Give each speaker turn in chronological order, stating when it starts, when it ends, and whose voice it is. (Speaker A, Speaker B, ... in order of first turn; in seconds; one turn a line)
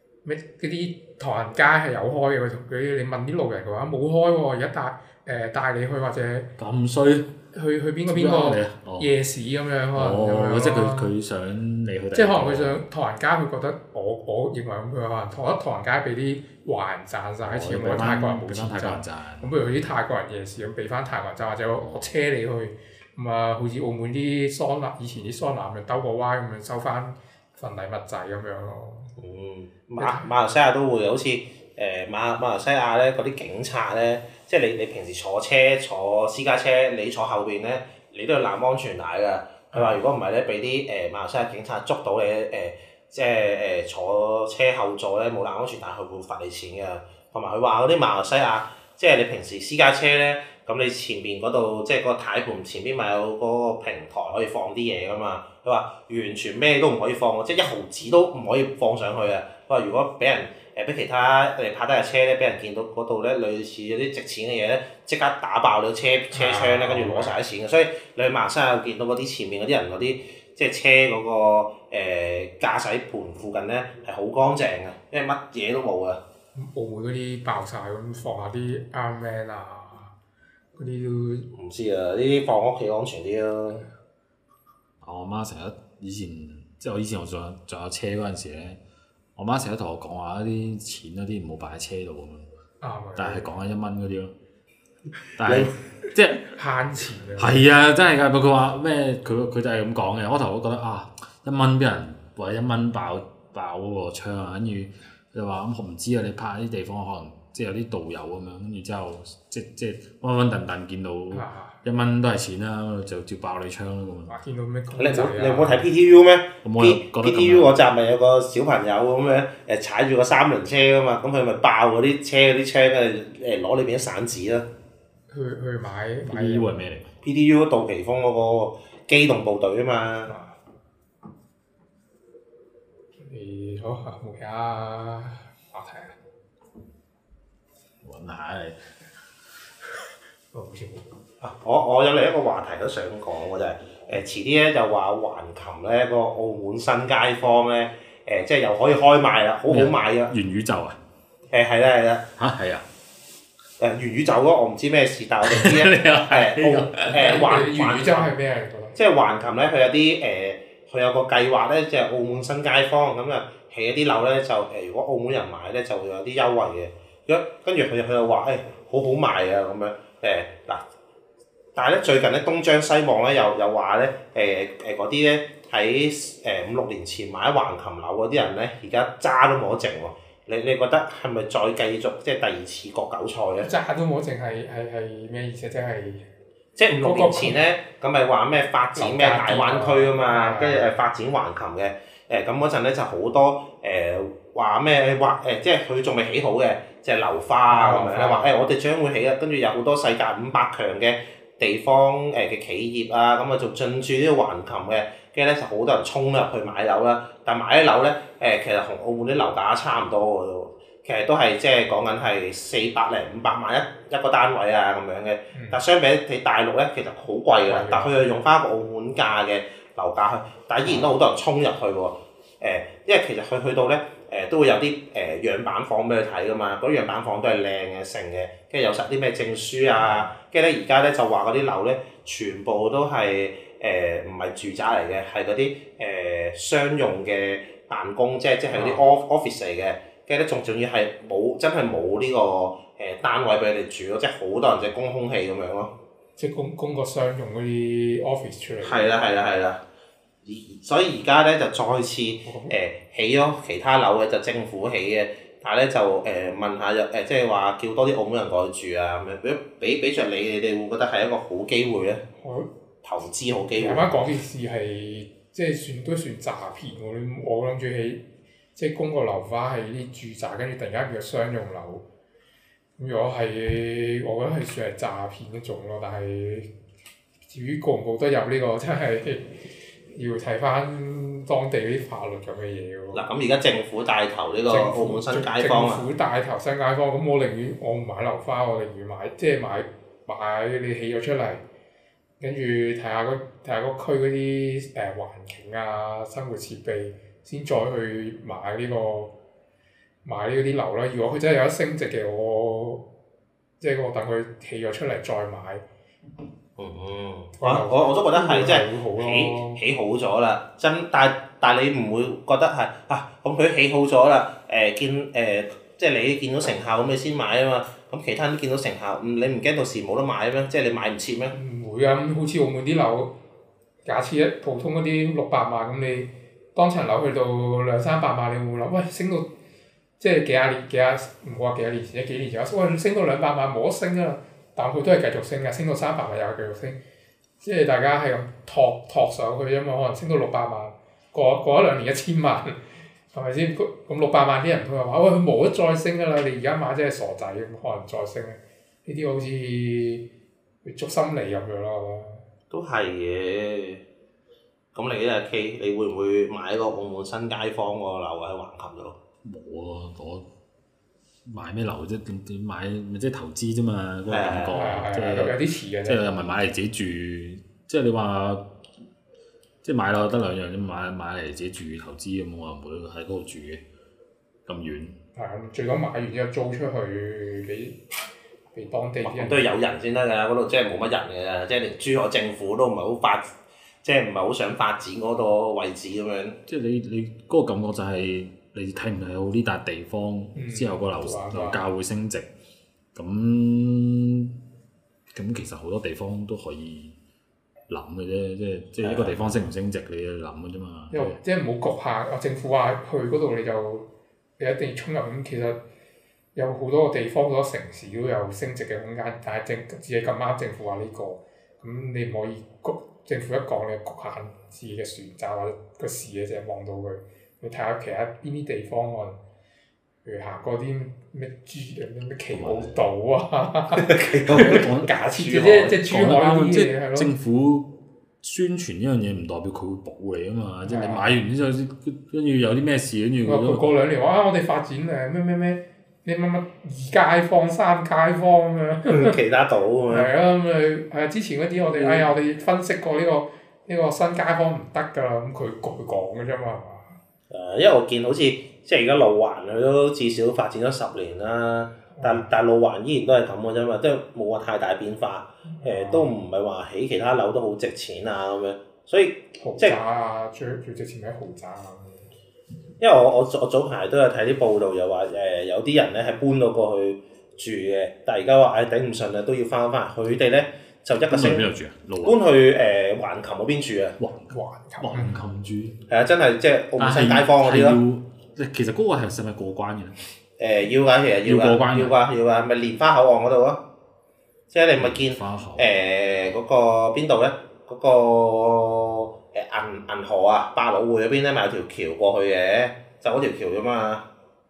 Speaker A: 0.2-6.5
Speaker B: 6.6-7.3
Speaker A: 7.5-11.1
Speaker B: 8.1-9.1
Speaker B: 9.9-12.8
Speaker A: 12.1-29.1
Speaker B: 17.4-19.5
Speaker C: 29.2-76.2
Speaker A: 30.0-30.3
Speaker A: 39.7-40.0
Speaker A: 66.3-67.3
Speaker A: 76.6-80.1
Speaker A: 80.8-81.5
Speaker C: 81.5-83.9
Speaker B: 85.0-88.8
Speaker B: 89.4-92.5
Speaker A: 92.8-93.5
Speaker B: 93.2-94.3
Speaker B: 95.4-96.5
Speaker A: 96.4-97.7
Speaker B: 97.4-114.3
Speaker A: 111.3-111.8
Speaker A: 114.3-115.9
Speaker C: 115.0-124.7
Speaker B: 116.6-117.7
Speaker A: 125.3-126.8
Speaker B: 126.3-127.1
Speaker C: 127.2-130.3
Speaker A: 130.3-130.6
Speaker A: 133.2-136.2
Speaker B: 138.0-138.9
Speaker A: 140.5-141.1
Speaker C: 141.4-150.3
Speaker B: 149.7-151.0
Speaker C: 151.5-152.3
Speaker B: 152.4-152.9
Speaker C: 153.8-158.3
Speaker B: 155.4-157.4
Speaker A: 157.1-159.0
Speaker C: 158.9-170.8
Speaker C: 171.8-183.7
Speaker A: 183.6-186.3
Speaker C: 186.8-245.9
Speaker A: 186.9-187.7
Speaker A: 189.0-190.9
Speaker A: 197.7-198.6
Speaker A: 215.5-215.8
Speaker A: 217.7-218.2
Speaker A: 220.9-221.1
Speaker A: 230.0-230.3
Speaker A: 238.7-239.1
Speaker A: 246.4-249.2
Speaker C: 248.8-249.8
Speaker C: 250.4-262.2
Speaker A: 252.5-252.8
Speaker A: 262.4-262.7
Speaker C: 263.0-264.1
Speaker A: 263.8-272.1
Speaker A: 273.0-276.7
Speaker A: 277.5-283.2
Speaker C: 283.1-286.1
Speaker A: 284.7-291.6
Speaker A: 292.4-299.3
Speaker A: 300.2-303.1
Speaker A: 303.8-305.8
Speaker C: 306.8-321.6
Speaker A: 307.6-309.8
Speaker A: 321.5-323.4
Speaker A: 324.1-329.5
Speaker A: 330.2-337.0
Speaker A: 337.6-350.3
Speaker A: 350.8-352.4
Speaker C: 352.7-354.0
Speaker C: 354.9-359.2
Speaker B: 359.4-360.5
Speaker B: 361.5-368.7
Speaker C: 364.3-364.8
Speaker A: 364.7-366.5
Speaker B: 369.8-373.8
Speaker B: 374.7-375.2
Speaker A: 375.4-378.1
Speaker A: 378.7-379.7
Speaker C: 379.2-386.6
Speaker B: 386.7-392.5
Speaker A: 390.6-391.8
Speaker B: 393.1-394.6
Speaker B: 395.3-397.2
Speaker B: 397.9-401.4
Speaker C: 399.0-399.4
Speaker A: 401.1-404.1
Speaker A: 404.6-405.8
Speaker A: 406.6-419.4
Speaker A: 420.2-427.3
Speaker B: 422.5-423.0
Speaker C: 424.0-424.9
Speaker B: 424.5-433.8
Speaker A: 430.9-431.3
Speaker A: 433.4-439.4
Speaker C: 439.1-440.3
Speaker A: 440.1-447.2
Speaker C: 441.9-442.3
Speaker C: 447.5-460.0
Speaker A: 452.1-452.5
Speaker A: 455.7-456.3
Speaker A: 459.6-462.3
Speaker C: 463.0-471.7
Speaker B: 471.3-472.4
Speaker C: 472.2-474.2
Speaker B: 474.2-476.0
Speaker A: 474.5-475.4
Speaker C: 476.1-478.0
Speaker B: 477.0-480.2
Speaker C: 480.6-483.9
Speaker B: 481.5-482.1
Speaker C: 484.7-494.3
Speaker B: 485.0-485.9